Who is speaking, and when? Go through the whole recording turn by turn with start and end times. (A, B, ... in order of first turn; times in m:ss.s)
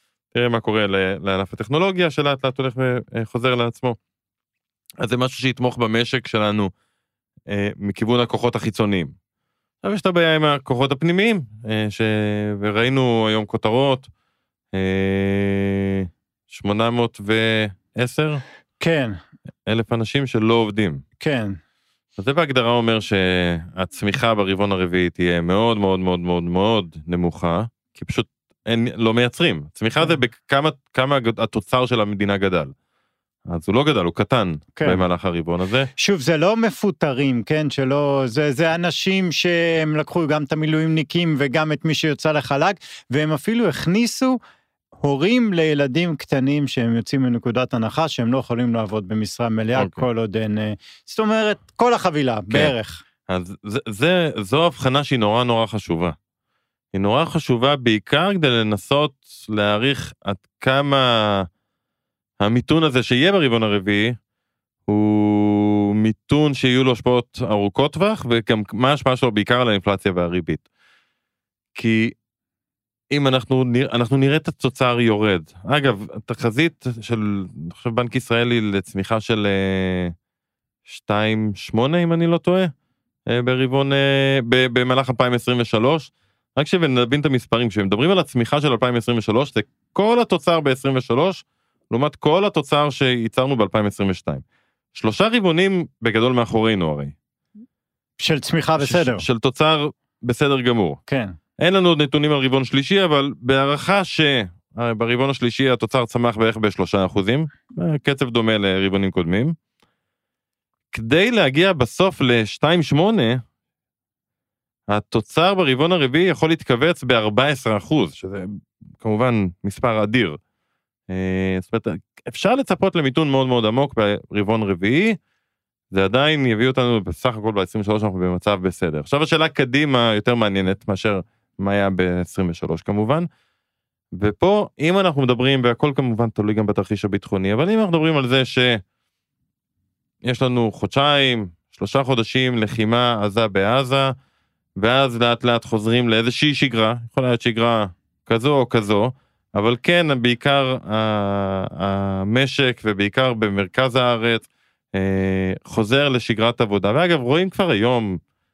0:00.3-0:04.0 A
0:05.0-0:06.7 A
0:07.5-0:09.1 A
0:09.8-0:14.1 A
0:14.7-0:18.4 A
0:18.8-0:19.2 B
0:19.6-0:21.0 A
0:21.2-0:21.6 B
0:22.2-0:32.7 A
0:33.5-0:35.9 A
0:34.8-0:35.0 B
0:36.0-0:44.4 B
0:45.0-0:53.0 B
0:49.8-0:50.0 A
0:53.3-0:56.2 A
0:56.9-1:01.5 A
1:02.4-1:04.2 A
1:04.9-1:10.6 A
1:11.7-1:12.2 A
1:13.1-1:20.1 A
1:20.9-1:22.7 A
1:23.3-1:37.1 A
1:38.2-1:39.2 B
1:38.8-1:41.0 A
1:41.1-1:41.3 B
1:41.6-1:49.5 A
1:50.9-1:53.4 A
1:54.9-2:00.4 A
2:01.1-2:05.2 A
2:05.9-2:13.3 A
2:14.1-2:18.8 A
2:20.2-2:24.1 A
2:24.8-2:38.2 A